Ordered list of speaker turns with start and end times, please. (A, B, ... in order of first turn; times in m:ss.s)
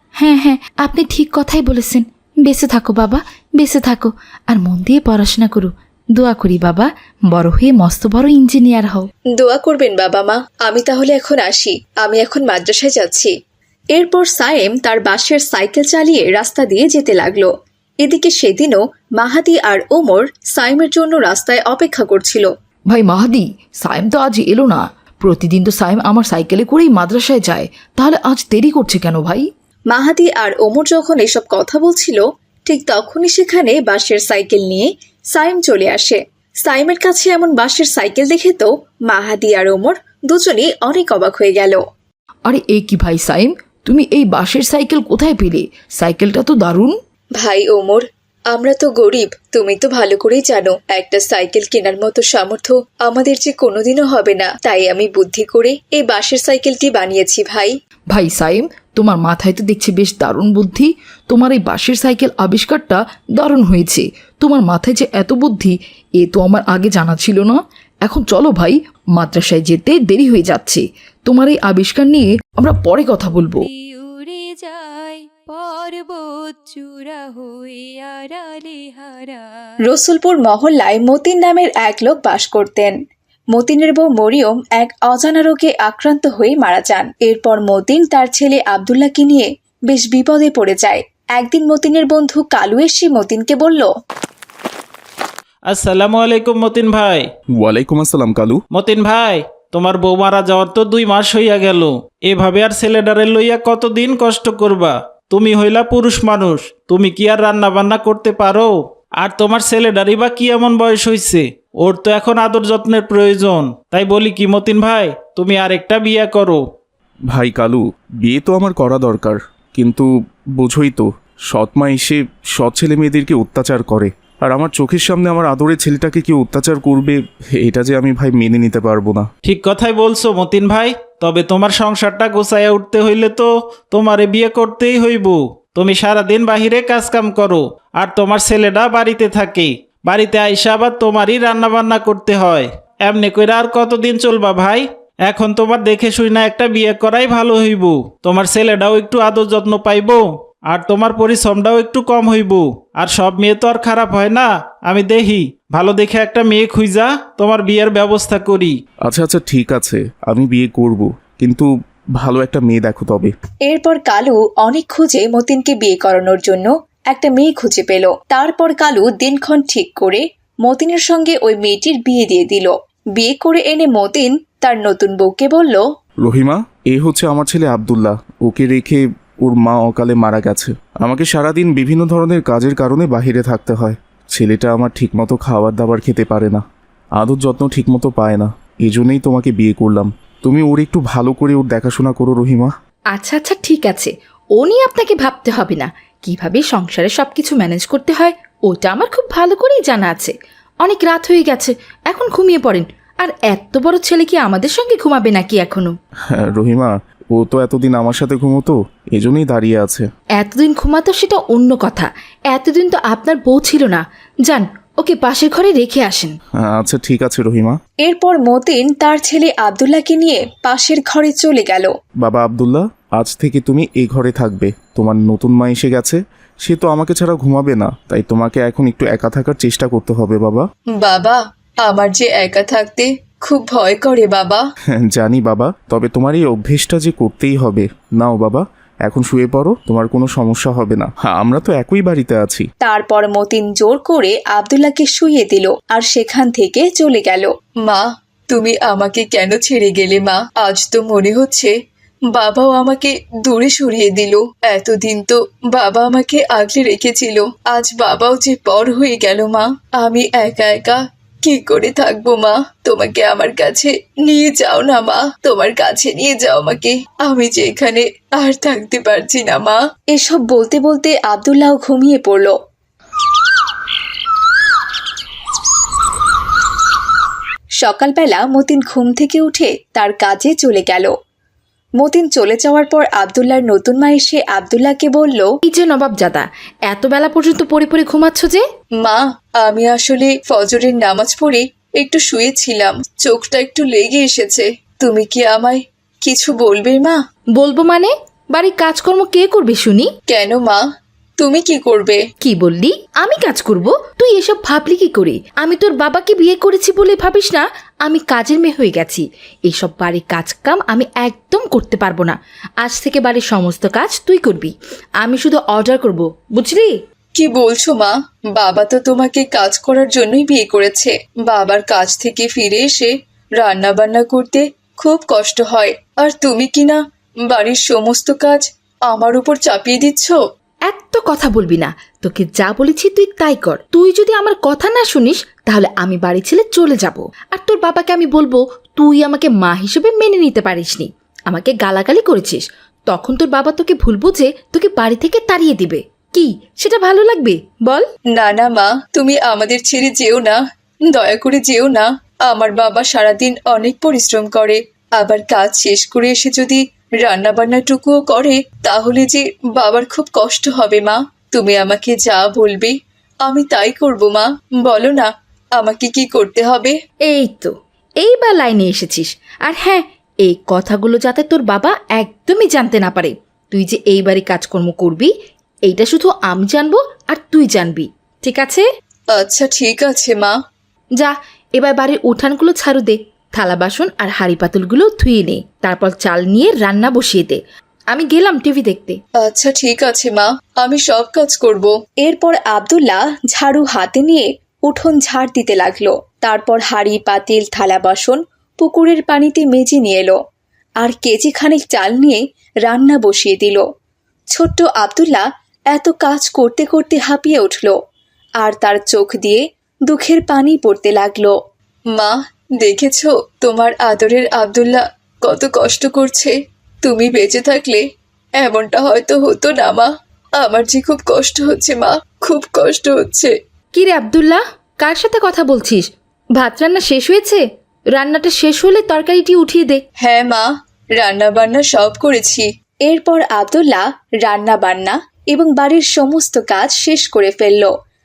0:00.2-0:09.1 A
0:09.4-0:13.3 B
0:14.0-0:17.5 B
0:18.0-0:22.5 B
0:22.9-0:29.5 C
0:29.9-0:41.8 B
0:42.5-0:47.0 C
0:47.4-0:57.8 B
0:58.1-1:13.6 C
1:13.4-1:19.4 D
1:19.9-1:22.9 B
1:23.5-1:33.9 B
1:35.7-1:37.3 E
1:37.6-1:38.6 F
1:38.7-1:56.6 E
1:57.3-2:09.3 F
2:09.5-2:38.8 E
2:39.1-2:43.3 F
2:43.7-2:55.8 B
2:56.2-3:06.6 F
3:07.2-3:12.7 F
3:13.1-3:26.0 A
3:26.3-3:30.1 F
3:30.4-3:36.4 A
3:36.6-3:37.8 F
3:38.0-3:41.9 B
3:42.2-3:50.7 F
3:51.0-3:54.6 B
3:55.0-4:02.7 F
4:02.8-4:11.7 B
4:12.3-4:32.6 B
4:37.8-4:41.1 B
4:42.0-4:45.5 B
4:45.7-4:48.6 A
4:49.0-4:57.2 B
4:57.6-5:00.1 A
5:00.3-5:00.8 B
5:01.4-5:02.2 B
5:02.4-5:16.9 A
5:17.4-5:30.4 B
5:30.9-5:48.1 A
5:48.3-6:07.0 B
6:07.3-6:15.3 A
6:15.9-6:18.9 A
6:19.3-6:20.6 B
6:21.2-6:27.6 A
6:28.1-6:29.2 A
6:29.4-6:40.4 B
6:41.0-6:43.8 B
6:44.5-6:48.0 B
6:48.6-6:51.6 B
6:52.1-6:58.0 B
6:58.6-7:03.5 B
7:04.0-7:10.0 A
7:10.2-7:17.9 B